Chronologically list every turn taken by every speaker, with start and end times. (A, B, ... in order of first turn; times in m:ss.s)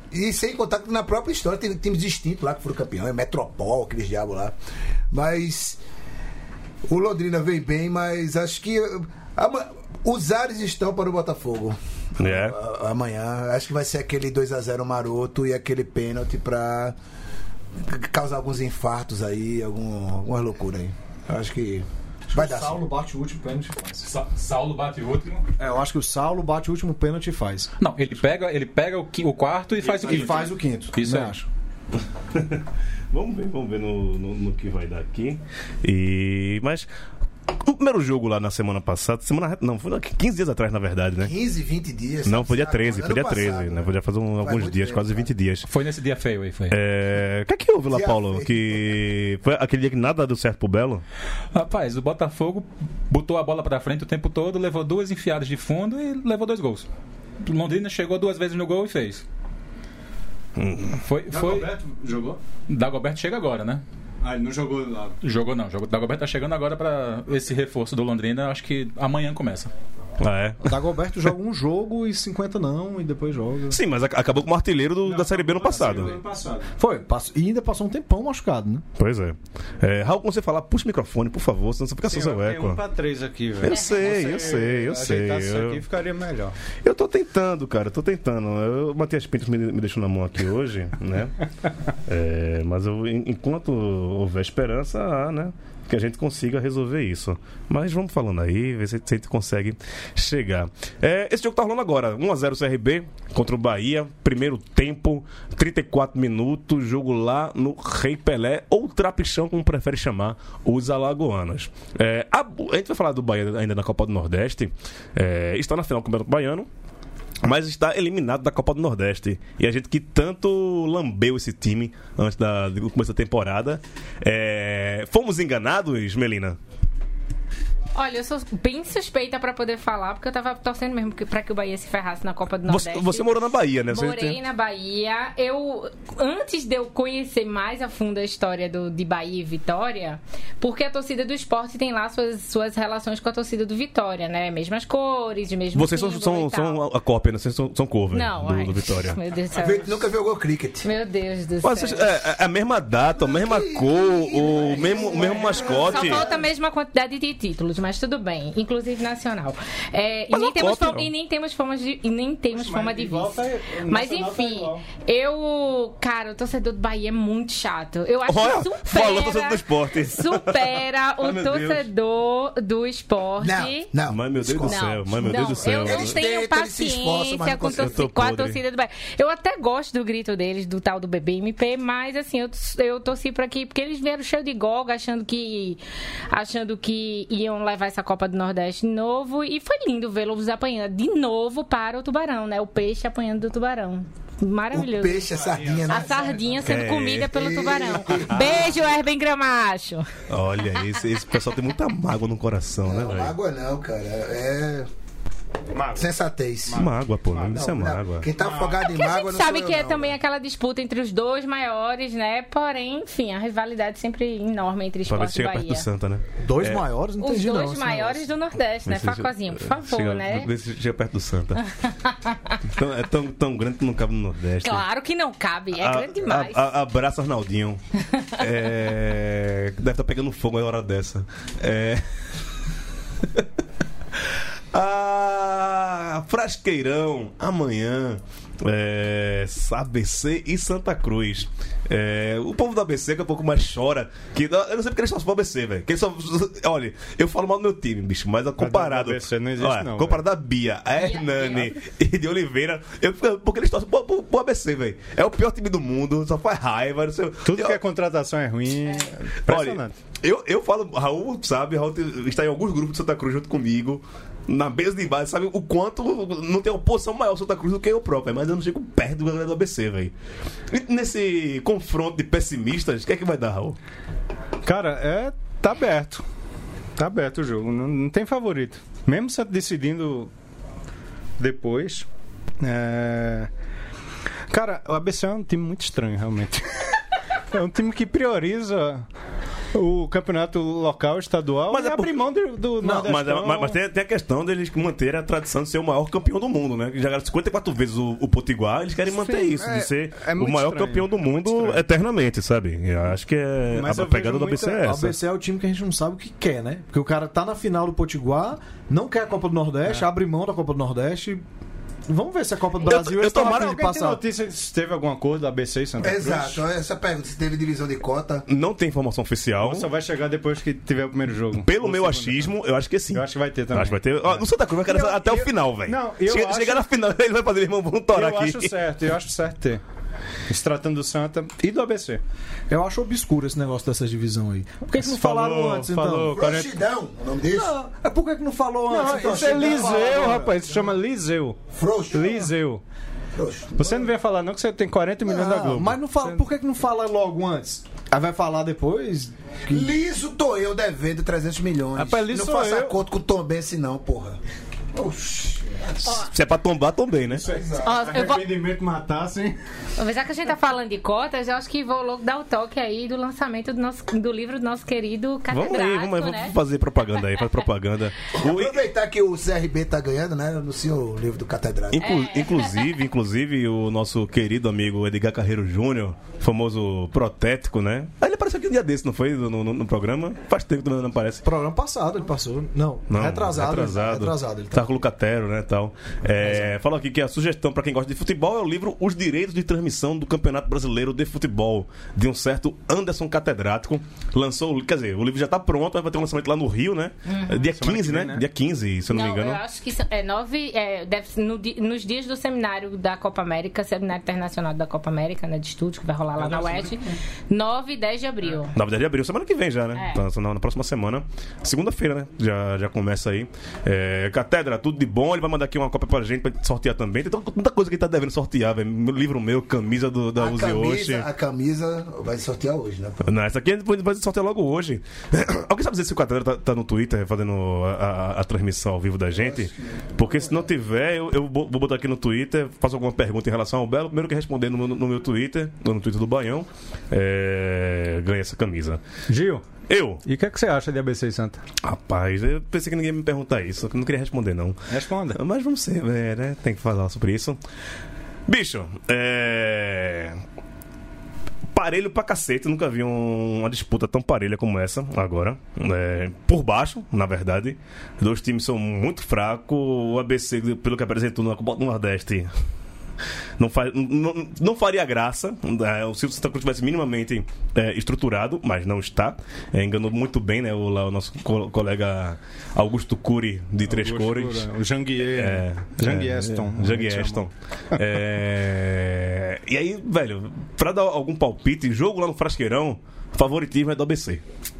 0:00.1-0:04.6 A
0:05.1-0:05.8 A
0:06.9-0:17.0 A
0:12.2-0:12.6 B
0:17.8-0:22.8 A
0:22.3-0:24.1 C
0:24.0-0:25.4 D
0:25.6-0:27.7 C
0:27.8-0:31.4 D
0:29.9-0:30.4 E
0:29.9-0:31.5 C
0:32.3-0:36.9 B
0:37.6-0:41.3 B
0:41.2-0:45.3 A
0:42.2-0:45.7 B
0:45.7-0:46.8 D
0:46.7-0:51.0 B
0:47.9-0:48.8 A
0:51.5-0:56.9 D
0:57.4-0:59.2 D
1:00.6-1:01.0 B
1:01.0-1:01.7 D
1:01.3-1:02.4 E
1:02.7-1:03.8 D
1:04.2-1:05.2 E
1:05.2-1:09.7 D
1:10.2-1:10.7 B
1:10.6-1:13.8 C
1:13.7-1:16.2 B
1:15.0-1:16.7 E
1:16.8-1:18.8 C
1:19.0-1:22.8 B
1:22.0-1:26.6 E
1:23.6-1:25.8 B
1:26.8-1:31.4 B
1:32.1-1:56.7 B
1:57.4-2:06.6 B
2:08.0-2:26.8 F
2:12.7-2:14.4 B
2:25.7-2:29.2 B
2:28.1-2:30.0 F
2:29.5-2:30.9 A
2:30.8-2:32.1 F
2:31.6-2:36.3 B
2:33.2-2:36.4 A
2:34.8-2:35.9 E
2:35.5-2:53.9 F
2:40.3-2:41.1 B
2:42.5-2:44.8 E
2:48.3-2:51.9 B
2:53.4-2:58.0 A
2:54.1-2:56.2 B
2:54.6-3:15.2 F
2:57.7-2:58.6 B
3:14.7-3:16.5 A
3:15.3-3:16.6 E
3:15.9-3:20.1 F
3:16.6-3:17.3 B
3:17.3-3:18.8 A
3:20.3-3:23.4 B
3:22.8-3:24.9 A
3:25.7-3:26.1 E
3:26.0-3:26.9 A
3:26.7-3:27.6 E
3:26.8-3:28.3 B
3:27.5-3:30.2 A
3:28.4-3:28.8 E
3:28.8-3:35.9 F
3:35.1-3:36.8 B
3:36.4-3:38.3 C
3:37.2-3:40.5 F
3:38.9-3:41.6 B
3:41.8-3:42.6 F
3:42.7-3:44.8 B
3:44.6-3:46.6 F
3:45.7-3:47.8 B
3:48.1-3:48.5 F
3:48.4-3:52.0 B
3:54.2-4:17.8 B
4:08.6-4:10.3 E
4:11.0-4:11.8 F
4:17.4-4:20.0 E
4:19.5-4:30.1 B
4:30.7-4:33.8 B
4:34.6-4:36.2 E
4:37.0-4:40.3 E
4:41.4-4:42.1 E
4:42.6-4:43.5 E
4:44.5-4:47.0 E
4:47.5-4:49.1 E
4:49.7-4:53.8 E
4:51.7-4:52.2 B
4:52.8-5:05.2 B
4:59.0-5:01.8 E
5:03.7-5:04.9 E
5:04.8-5:11.4 C
5:12.1-5:14.2 C
5:12.8-5:13.8 B
5:13.3-5:16.6 E
5:16.0-5:18.5 A
5:18.5-5:19.9 B
5:19.6-5:22.6 E
5:21.6-5:28.8 B
5:23.1-5:26.9 E
5:28.1-5:29.8 E
5:30.5-5:32.2 E
5:32.7-5:36.4 C
5:34.9-5:36.7 E
5:36.3-5:37.7 A
5:37.5-5:40.6 C
5:38.9-5:42.8 E
5:39.1-5:40.4 A
5:41.7-5:42.5 A
5:43.4-5:44.1 A
5:43.8-5:46.4 E
5:45.3-5:49.9 C
5:49.7-5:54.4 A
5:52.0-5:53.0 E
5:54.9-5:56.1 A
5:56.0-5:56.3 F
5:56.1-5:57.5 B
5:57.3-5:59.6 E
5:57.4-5:58.0 A
5:57.8-5:58.5 F
6:00.0-6:06.6 F
6:05.5-6:08.8 B
6:08.3-6:12.1 A
6:11.9-6:21.4 B
6:12.0-6:12.9 F
6:21.4-6:24.9 C
6:23.1-6:39.6 B
6:26.4-6:26.7 C
6:37.3-6:37.6 F
6:37.6-6:38.5 E
6:39.1-6:48.7 F
6:46.4-6:47.0 E
6:48.7-7:01.3 B
6:50.0-6:50.2 F
7:00.4-7:03.3 A
7:03.2-7:19.0 B
7:09.3-7:10.6 A
7:19.3-7:21.6 E
7:19.8-7:20.2 B
7:21.8-7:24.8 B
7:24.9-7:25.4 E
7:25.3-7:27.6 B
7:28.5-7:30.4 B
7:31.7-7:42.5 B
7:43.6-7:54.7 B
7:53.8-7:58.2 E
7:55.2-8:04.4 B